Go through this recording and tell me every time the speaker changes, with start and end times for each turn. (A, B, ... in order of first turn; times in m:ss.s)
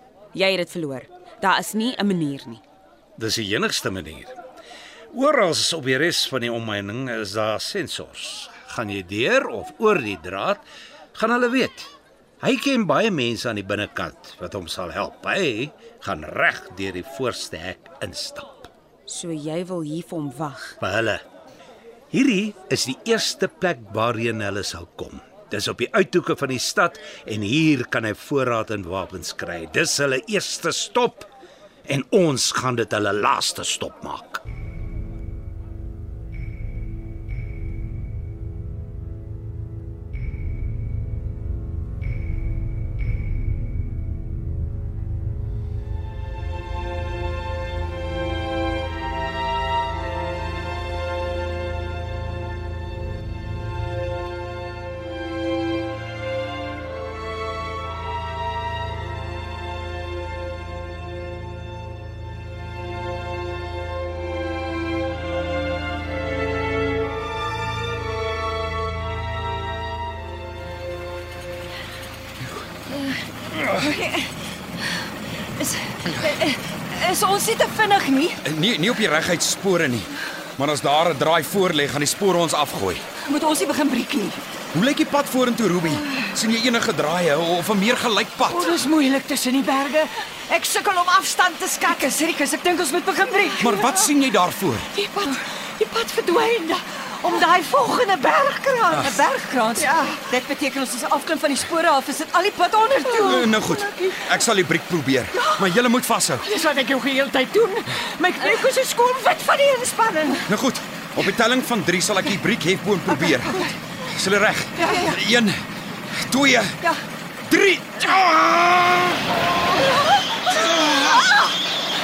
0:00.3-0:02.6 A
0:03.2-0:04.4 B
0:05.1-0:10.6 B
0:11.1-0:18.7 B
0:19.1-0:20.8 A
0:20.8-0:21.2 B
0:22.1-0:31.3 B
0:31.8-0:34.4 B
1:12.9-1:14.4 C
1:15.6-1:18.4 C
1:18.4-1:23.1 D
1:23.2-1:24.4 C
1:24.7-1:28.8 D
1:28.5-1:32.0 E
1:30.4-1:33.8 C
1:33.6-1:34.9 D
1:34.9-1:39.0 E
1:38.9-1:39.2 D
1:39.0-1:43.5 C
1:39.8-1:40.2 E
1:43.2-1:46.4 D
1:43.5-1:44.3 E
1:45.3-1:45.6 E
1:46.4-1:50.5 E
1:50.5-1:55.6 D
1:54.8-1:55.2 C
1:56.1-1:56.8 D
1:57.4-1:59.3 D
2:00.5-2:01.4 D